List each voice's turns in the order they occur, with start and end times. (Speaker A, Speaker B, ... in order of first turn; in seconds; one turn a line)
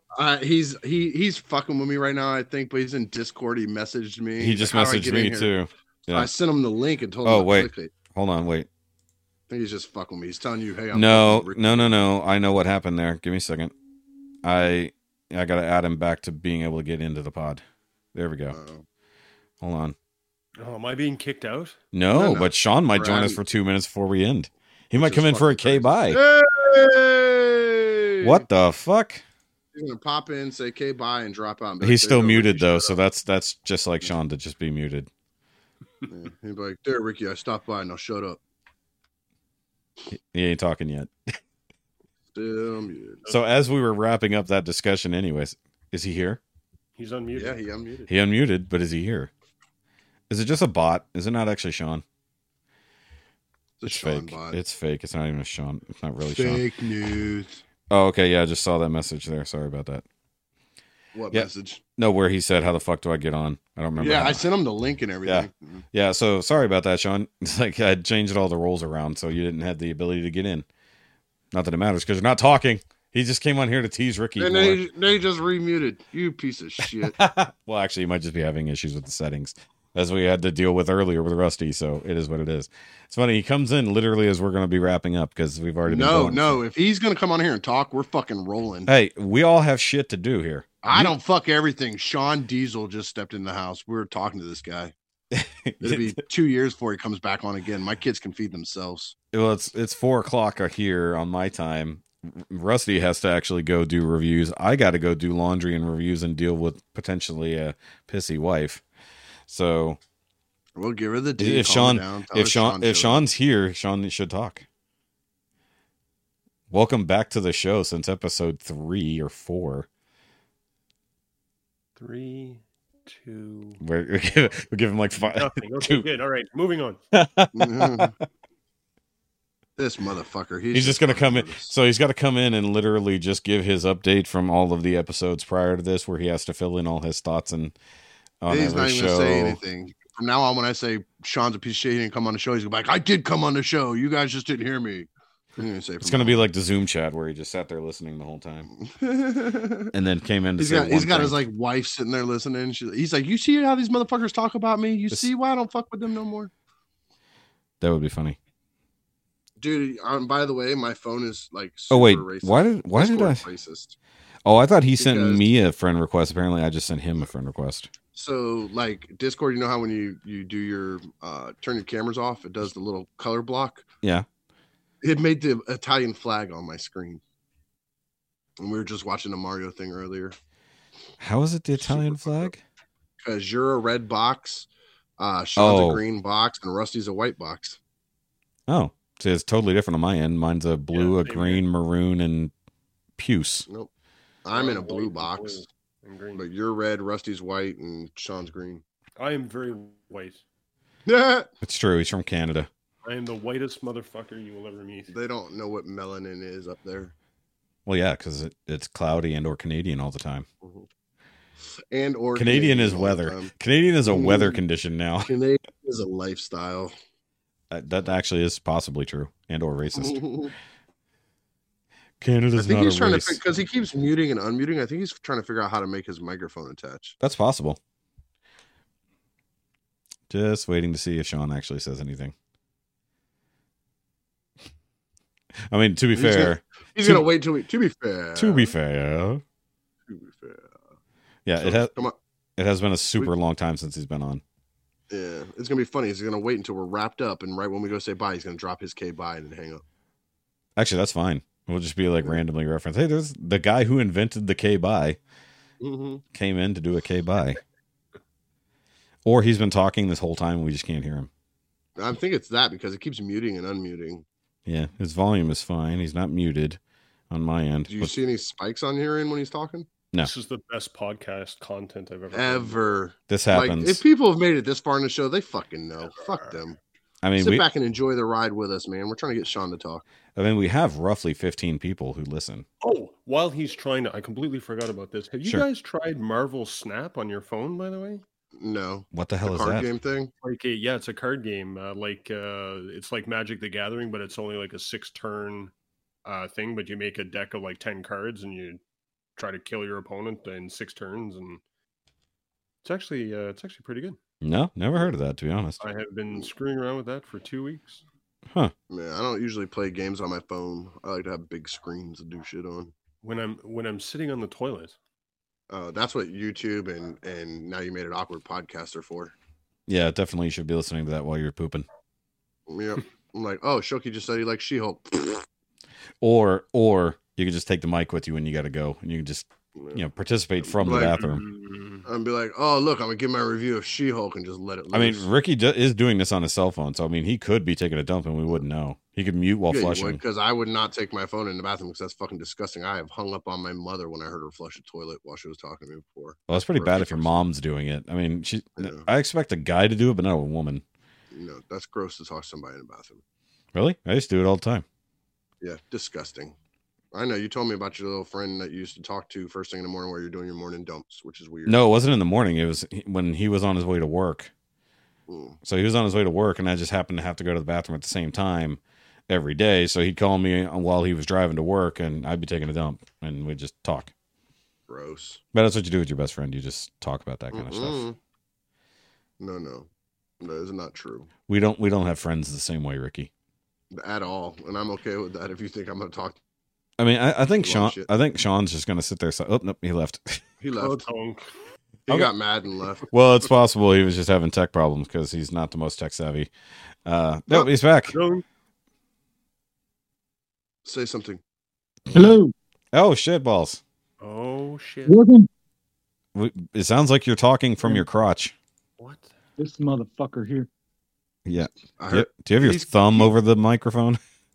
Speaker A: 0.1-5.5
Speaker B: 4.4-6.3
Speaker A: 6.1-7.9
Speaker B: 7.2-8.7
Speaker A: 9.5-12.1
Speaker B: 10.9-13.7
Speaker B: 14.4-17.6
Speaker B: 18.1-18.6
Speaker A: 18.5-18.9
Speaker B: 19.6-19.9
Speaker C: 20.6-21.8
Speaker B: 21.9-26.2
Speaker A: 22.1-23.4
Speaker A: 24.9-28.4
Speaker B: 28.2-29.2
Speaker A: 29.7-33.0
Speaker B: 31.8-35.1
Speaker A: 36.1-38.4
Speaker B: 40.1-41.1
Speaker A: 42.3-43.2
Speaker B: 43.3-46.4
Speaker C: 47.0-48.1
Speaker A: 47.4-48.1
Speaker B: 48.1-49.3
Speaker B: 50.3-52.0
Speaker A: 53.8-54.6
Speaker B: 53.9-56.6
Speaker A: 56.2-57.6
Speaker B: 57.9-60.0
Speaker A: 61.1-61.8
Speaker B: 61.3-64.5
Speaker A: 64.0-65.8
Speaker B: 65.2-70.7
Speaker B: 71.5-74.8
Speaker A: 74.4-77.2
Speaker B: 77.0-86.6
Speaker A: 85.8-88.9
Speaker B: 88.9-91.2
Speaker A: 90.8-94.9
Speaker B: 95.3-96.2
Speaker A: 95.8-99.2
Speaker B: 99.3-108.8
Speaker B: 109.5-110.0
Speaker A: 110.8-113.2
Speaker B: 111.4-114.7
Speaker B: 116.7-119.9
Speaker C: 122.0-123.8
Speaker B: 123.8-126.0
Speaker C: 125.2-127.0
Speaker B: 127.1-128.1
Speaker A: 127.5-128.2
Speaker A: 129.8-131.7
Speaker B: 130.7-137.8
Speaker B: 138.4-139.6
Speaker A: 138.5-146.4
Speaker B: 146.0-148.7
Speaker A: 148.8-149.9
Speaker B: 149.9-151.4
Speaker A: 150.6-156.5
Speaker B: 157.8-158.4
Speaker A: 159.6-164.0
Speaker B: 161.9-163.4
Speaker B: 164.5-167.9
Speaker A: 165.0-165.5
Speaker A: 168.2-173.9
Speaker A: 175.0-177.2
Speaker A: 178.6-180.4
Speaker B: 181.2-182.6
Speaker A: 181.8-182.5
Speaker A: 183.2-184.7
Speaker A: 185.2-187.8
Speaker B: 185.6-186.0
Speaker B: 188.7-192.5
Speaker C: 190.9-191.6
Speaker B: 193.2-193.7
Speaker A: 194.4-195.6
Speaker C: 194.5-196.4
Speaker A: 196.3-198.8
Speaker C: 199.2-200.4
Speaker A: 201.1-201.5
Speaker B: 201.6-202.7
Speaker C: 203.1-205.1
Speaker A: 205.1-207.1
Speaker B: 207.9-210.5
Speaker A: 211.9-213.5
Speaker B: 212.3-215.3
Speaker A: 214.1-214.6
Speaker A: 215.3-216.9
Speaker B: 217.7-220.2
Speaker A: 220.0-220.5
Speaker B: 222.2-223.4
Speaker A: 222.6-227.2
Speaker B: 227.2-227.8
Speaker B: 230.3-232.3
Speaker B: 235.7-237.2
Speaker A: 236.1-238.7
Speaker B: 238.4-239.4
Speaker A: 240.1-240.8
Speaker B: 241.5-241.9
Speaker A: 241.6-242.2
Speaker B: 242.6-244.4
Speaker A: 245.1-249.8
Speaker B: 250.8-255.2
Speaker A: 255.8-256.2
Speaker B: 256.3-257.6
Speaker B: 259.2-261.3
Speaker A: 262.0-264.2
Speaker B: 264.7-266.8
Speaker B: 267.3-268.1
Speaker A: 267.9-269.9
Speaker C: 270.2-272.9
Speaker A: 272.3-276.8
Speaker B: 273.3-274.0
Speaker B: 277.2-277.7
Speaker A: 277.4-280.0
Speaker B: 280.4-282.7
Speaker C: 282.8-288.2
Speaker A: 288.6-290.3
Speaker B: 289.1-289.9
Speaker C: 290.4-295.7
Speaker C: 296.2-298.8
Speaker C: 299.4-301.6
Speaker C: 302.8-304.2
Speaker B: 304.4-305.8
Speaker C: 305.8-308.0
Speaker A: 308.9-312.9
Speaker C: 313.2-315.0
Speaker A: 315.7-319.3
Speaker B: 319.9-321.9
Speaker A: 322.7-325.5
Speaker B: 326.2-331.4
Speaker A: 329.8-330.0
Speaker A: 330.7-331.2
Speaker C: 330.8-332.1
Speaker A: 332.1-335.3
Speaker B: 334.9-340.2
Speaker A: 339.7-347.4
Speaker B: 346.5-350.8
Speaker A: 348.8-349.1
Speaker A: 351.3-353.2
Speaker B: 353.8-354.9
Speaker A: 355.6-356.6
Speaker A: 357.1-361.8
Speaker B: 361.7-364.5
Speaker A: 365.3-365.6
Speaker B: 365.6-374.1
Speaker A: 374.9-375.4
Speaker B: 375.5-378.0
Speaker A: 377.5-378.2
Speaker A: 379.4-379.9
Speaker A: 380.4-381.3
Speaker B: 381.5-383.3
Speaker A: 383.9-386.4
Speaker B: 387.0-390.4
Speaker A: 387.6-388.1
Speaker A: 390.6-391.0
Speaker C: 390.8-391.5
Speaker A: 392.1-393.1
Speaker B: 393.1-396.5
Speaker B: 397.1-398.2
Speaker C: 398.1-398.4
Speaker A: 400.9-401.4
Speaker D: 402.1-402.5
Speaker B: 402.9-403.8
Speaker C: 404.2-405.2
Speaker D: 405.1-405.5
Speaker B: 406.4-408.6
Speaker C: 409.0-409.3
Speaker D: 409.6-410.7
Speaker B: 411.4-414.2
Speaker A: 412.0-413.3